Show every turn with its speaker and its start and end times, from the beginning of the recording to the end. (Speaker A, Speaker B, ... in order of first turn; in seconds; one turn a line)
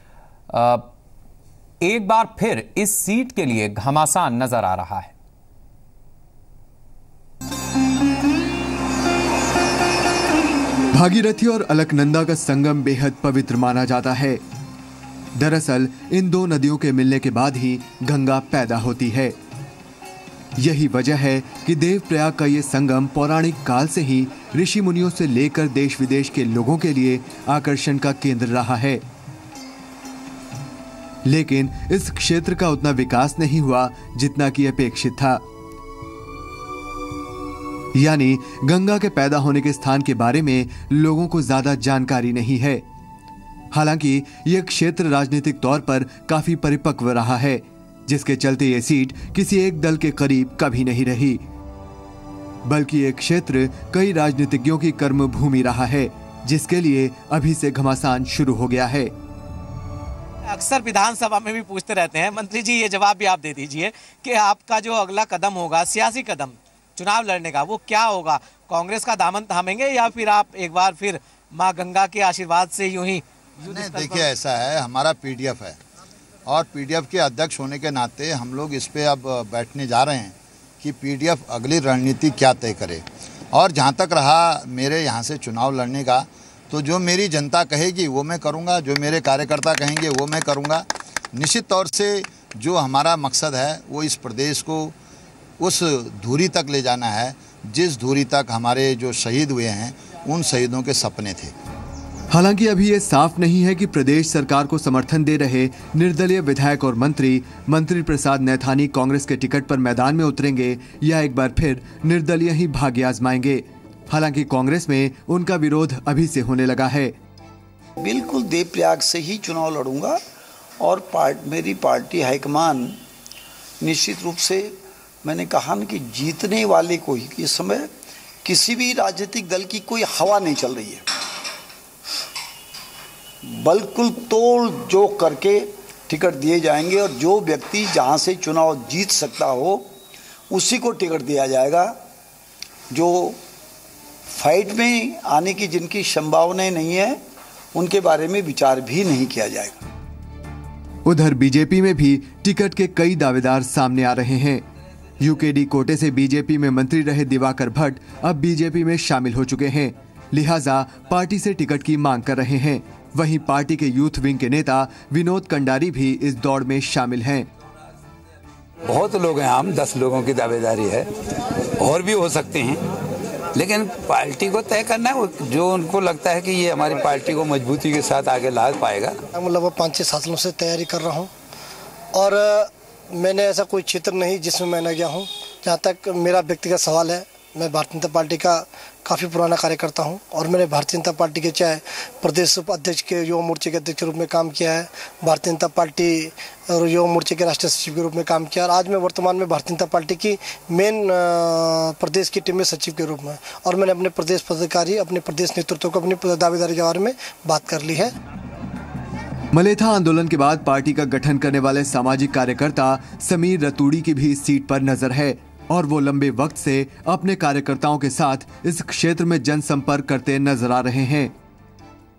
Speaker A: 0.5-0.9
Speaker A: 1.8-5.1
Speaker B: 10.9-14.4
Speaker B: 15.4-19.4
Speaker B: 20.6-29.0
Speaker B: 31.3-35.4
Speaker B: 38.0-42.8
Speaker B: 43.7-51.4
Speaker B: 52.7-59.1
Speaker C: 60.5-74.3
Speaker D: 73.7-75.8
Speaker D: 76.5-95.0
Speaker D: 95.6-101.5
Speaker B: 102.3-117.1
Speaker E: 118.0-120.2
Speaker E: 120.8-123.0
Speaker E: 123.8-127.9
Speaker E: 128.4-131.1
Speaker E: 133.4-139.9
Speaker E: 140.5-141.9
Speaker E: 142.9-143.4
Speaker E: 144.3-147.2
Speaker E: 147.8-149.8
Speaker B: 151.1-154.7
Speaker B: 155.2-167.5
Speaker F: 168.9-171.1
Speaker F: 171.8-172.8
Speaker F: 173.5-179.2
Speaker G: 179.3-181.3
Speaker G: 182.1-208.1
Speaker B: 209.5-221.3